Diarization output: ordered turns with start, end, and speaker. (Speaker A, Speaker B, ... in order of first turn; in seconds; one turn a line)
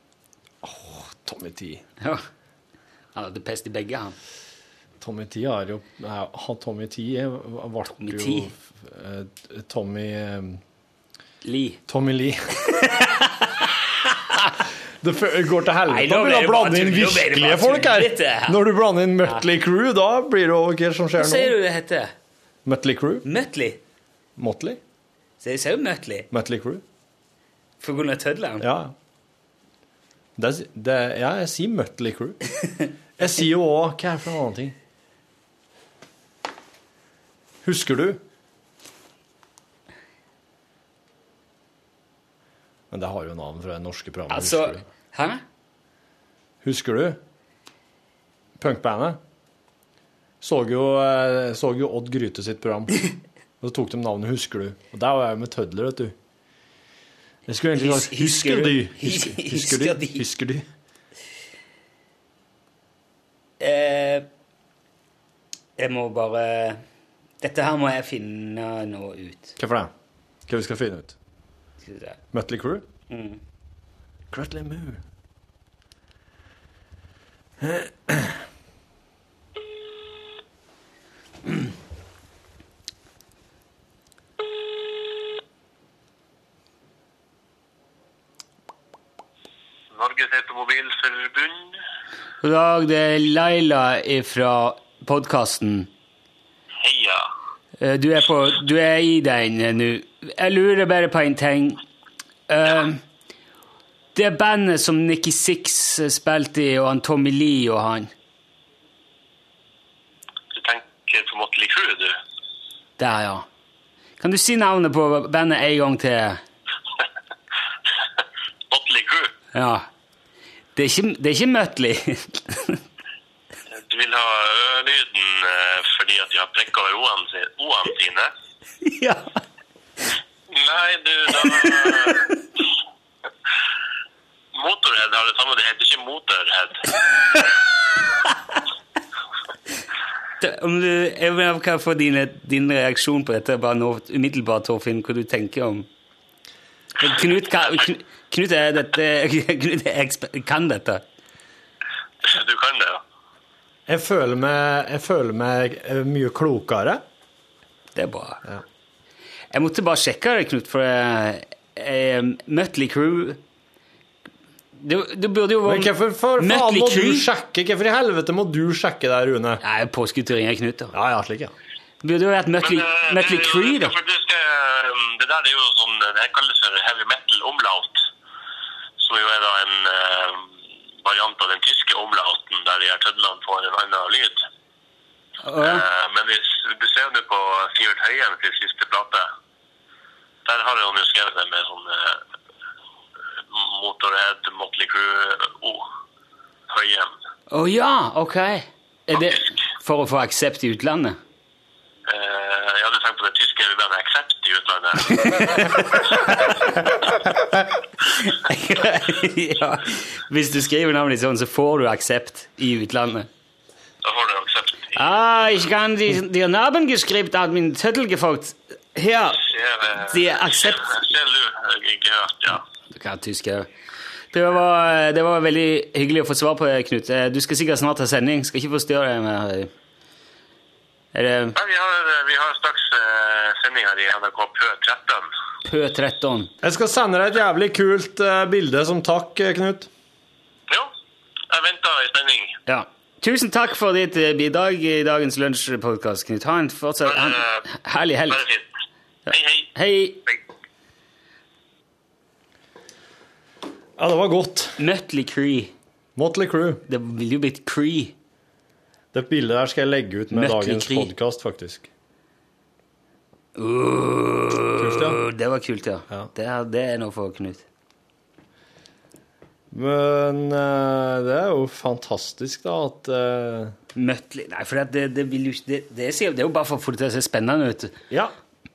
Speaker A: 0.6-1.8
Speaker B: 3.1-4.2
Speaker A: 5.0-10.6
Speaker B: 8.0-8.5
Speaker B: 11.4-11.8
Speaker A: 11.9-12.4
Speaker B: 12.7-14.2
Speaker A: 15.0-21.5
Speaker B: 15.9-18.6
Speaker B: 21.2-22.1
Speaker A: 22.6-23.3
Speaker B: 23.2-23.8
Speaker A: 24.4-24.8
Speaker B: 25.4-26.3
Speaker A: 26.3-26.8
Speaker B: 27.8-28.7
Speaker A: 28.6-28.9
Speaker A: 30.4-32.4
Speaker A: 33.2-34.8
Speaker A: 37.6-38.2
Speaker A: 42.9-44.8
Speaker B: 44.3-45.4
Speaker A: 46.6-47.2
Speaker A: 48.6-49.2
Speaker A: 50.4-53.1
Speaker A: 53.6-56.1
Speaker A: 57.5-60.6
Speaker B: 57.8-60.2
Speaker B: 63.6-64.3
Speaker B: 65.8-66.8
Speaker B: 67.4-69.6
Speaker A: 69.6-69.9
Speaker A: 70.5-71.2
Speaker B: 71.8-72.2
Speaker A: 72.3-72.9
Speaker B: 73.1-73.4
Speaker A: 74.3-75.0
Speaker A: 77.6-78.3
Speaker C: 89.9-91.8
Speaker B: 92.4-95.9
Speaker C: 96.8-97.2
Speaker B: 97.8-101.8
Speaker B: 102.5-103.0
Speaker B: 104.2-108.1
Speaker C: 110.5-112.2
Speaker B: 113.0-113.5
Speaker B: 114.2-116.4
Speaker C: 118.7-119.3
Speaker B: 119.5-119.9
Speaker B: 120.8-122.8
Speaker C: 123.7-128.3
Speaker B: 128.8-129.4
Speaker C: 130.5-132.3
Speaker B: 131.4-132.2
Speaker C: 134.6-136.8
Speaker B: 140.4-145.9
Speaker B: 147.0-151.0
Speaker C: 152.2-153.0
Speaker A: 153.9-157.0
Speaker B: 157.9-158.4
Speaker B: 159.5-163.4
Speaker B: 164.8-167.3
Speaker A: 165.6-169.6
Speaker B: 169.6-170.9
Speaker A: 170.9-171.5
Speaker B: 172.0-173.9
Speaker C: 172.6-178.0
Speaker C: 179.0-184.4
Speaker B: 185.4-185.8
Speaker C: 185.6-189.3
Speaker C: 190.4-192.2
Speaker C: 193.5-195.9
Speaker C: 196.7-197.1
Speaker B: 197.5-201.2
Speaker C: 202.1-206.3
Speaker B: 205.1-206.9
Speaker B: 208.1-213.3
Speaker C: 214.0-215.0
Speaker B: 214.9-219.4
Speaker C: 219.4-222.6
Speaker B: 220.0-221.0
Speaker B: 222.9-223.7
Speaker B: 224.3-229.7
Speaker B: 231.1-231.6
Speaker C: 231.6-235.3
Speaker B: 235.7-236.5
Speaker A: 236.6-239.9
Speaker C: 241.5-242.6
Speaker B: 242.7-248.5
Speaker C: 247.2-247.6
Speaker C: 248.3-248.6
Speaker B: 249.3-250.3
Speaker C: 249.3-249.7
Speaker A: 254.0-254.8
Speaker B: 254.8-255.7
Speaker A: 256.2-256.8
Speaker B: 256.9-258.1
Speaker A: 259.1-261.9
Speaker B: 260.3-261.1
Speaker B: 263.6-267.6
Speaker A: 264.8-265.2
Speaker A: 269.7-273.7
Speaker B: 273.9-278.0